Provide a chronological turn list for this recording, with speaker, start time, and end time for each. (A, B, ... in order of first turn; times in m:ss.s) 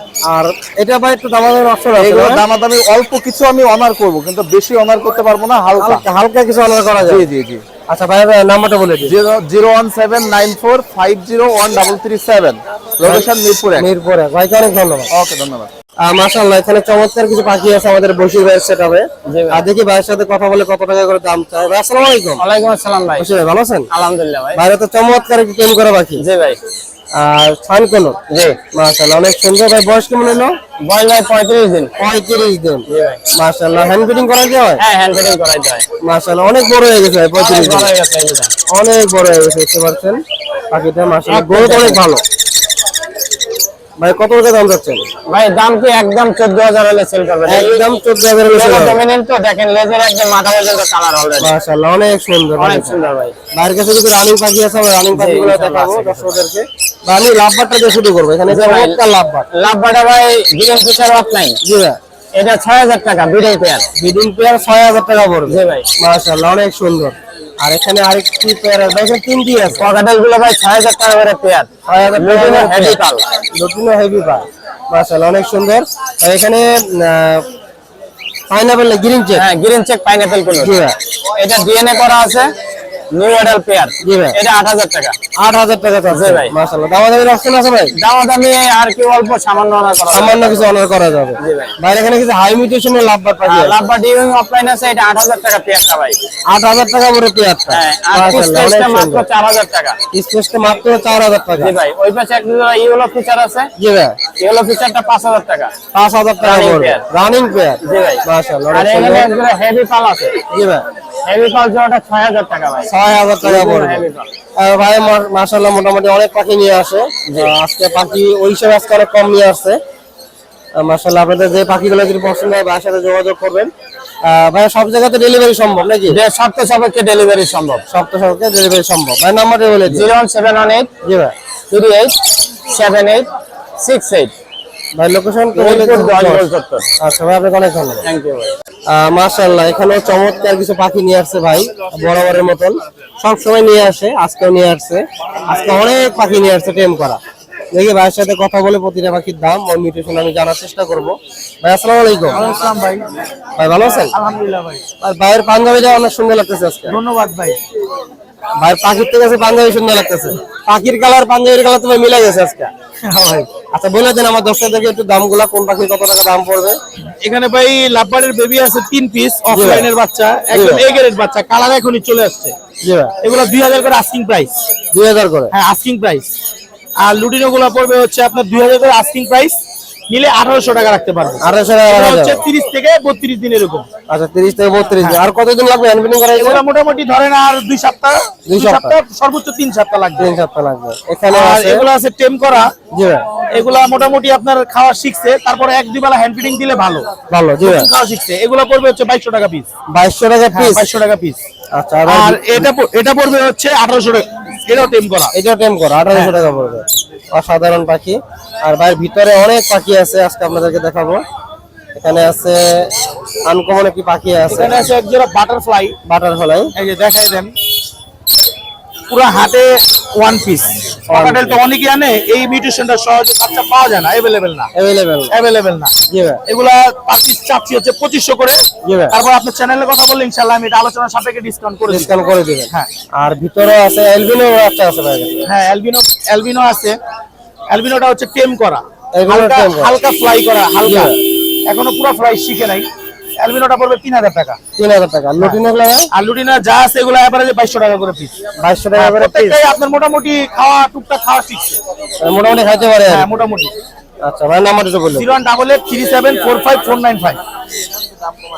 0:00.2-0:02.4 A
0:02.0-0:06.0 B
0:05.8-0:07.3 A
0:07.0-0:07.6 B
0:07.9-0:09.1 A
0:09.0-0:13.8 B
0:13.0-0:15.1 A
0:15.1-0:15.7 B
0:16.0-0:22.4 A
0:19.2-0:19.6 C
0:22.4-0:23.3 C
0:23.2-0:23.9 A
0:23.9-0:24.6 C
0:24.5-0:26.2 A
0:26.2-0:26.6 C
0:27.2-0:28.2 A
0:28.3-0:28.6 C
0:28.7-0:30.5 A
0:30.8-0:31.9 C
0:32.0-0:32.8 A
0:32.9-0:33.2 C
0:33.4-0:34.8 A
0:34.8-0:35.8 C
0:36.0-0:37.9 A
0:37.4-0:38.5 C
0:38.7-0:42.2 A
0:41.4-0:42.0 C
0:44.0-0:45.0 A
0:45.2-0:47.8 C
0:47.4-0:49.0 A
0:48.5-0:51.5 C
0:51.4-0:52.9 A
0:52.6-0:53.3 C
0:53.5-0:59.4 A
0:55.1-0:56.4 C
0:58.5-0:59.0 C
0:59.5-1:01.6 C
1:01.6-1:02.0 A
1:02.3-1:03.9 C
1:04.0-1:09.8 A
1:05.5-1:05.9 C
1:09.8-1:13.2 C
1:11.9-1:13.0 A
1:13.5-1:17.4 A
1:18.5-1:19.4 A
1:19.4-1:20.7 C
1:20.6-1:20.9 A
1:21.4-1:22.5 C
1:23.1-1:25.2 C
1:24.0-1:24.4 A
1:25.4-1:27.9 A
1:26.1-1:26.5 C
1:28.0-1:30.7 C
1:30.1-1:33.8 A
1:31.4-1:31.7 C
1:33.4-1:36.2 C
1:36.5-1:39.2 A
1:37.7-1:40.0 C
1:40.1-1:41.7 A
1:41.6-1:43.7 C
1:43.8-1:44.2 A
1:44.4-1:45.7 C
1:45.9-1:49.3 A
1:46.4-1:47.0 C
1:47.8-1:50.4 C
1:50.5-1:50.8 A
1:51.2-1:52.9 C
1:52.8-1:54.0 A
1:53.4-1:54.3 C
1:54.6-1:59.8 A
2:00.8-2:03.7 A
2:04.2-2:06.2 A
2:06.1-2:07.8 C
2:07.9-2:10.1 A
2:09.9-2:10.9 C
2:11.0-2:11.3 A
2:11.7-2:14.3 C
2:14.9-2:16.5 A
2:15.5-2:16.8 C
2:17.0-2:18.0 A
2:18.0-2:18.5 C
2:18.9-2:27.2 A
2:27.7-2:32.4 A
2:32.4-2:33.0 D
2:33.6-2:34.1 A
2:34.1-2:34.8 D
2:35.0-2:37.0 A
2:36.9-2:37.6 D
2:38.6-2:42.7 A
2:43.0-2:43.5 D
2:43.7-2:46.8 A
2:47.2-2:52.5 D
2:49.5-2:49.9 A
2:50.5-2:50.8 A
2:52.8-2:53.1 A
2:53.2-2:54.5 D
2:54.9-2:55.5 A
2:55.5-2:56.3 D
2:57.0-2:59.6 D
3:00.1-3:03.8 D
3:01.4-3:02.4 A
3:04.1-3:06.6 A
3:06.4-3:10.3 D
3:08.5-3:09.0 A
3:10.2-3:11.8 A
3:11.3-3:12.7 D
3:12.9-3:13.2 A
3:13.5-3:17.1 D
3:17.3-3:17.9 A
3:17.6-3:19.7 D
3:19.9-3:20.9 A
3:20.5-3:21.4 D
3:21.7-3:22.7 A
3:22.1-3:25.3 D
3:25.3-3:31.2 A
3:31.9-3:32.9 A
3:33.4-3:34.9 A
3:34.5-3:35.9 D
3:36.0-3:36.7 A
3:36.7-3:37.5 D
3:39.1-3:44.7 D
3:41.1-3:41.6 A
3:44.7-3:45.3 A
3:45.3-3:45.9 D
3:46.1-3:46.4 A
3:46.5-3:52.1 D
3:48.8-3:49.1 A
3:51.9-3:55.4 A
3:55.4-3:57.0 D
3:57.7-4:01.1 D
3:59.1-4:00.0 A
4:00.8-4:01.1 A
4:01.7-4:02.8 D
4:03.4-4:04.6 D
4:04.8-4:06.1 A
4:06.1-4:08.3 D
4:08.6-4:09.6 A
4:08.9-4:11.8 D
4:12.2-4:13.4 A
4:13.1-4:13.7 D
4:14.2-4:15.3 A
4:15.1-4:17.4 D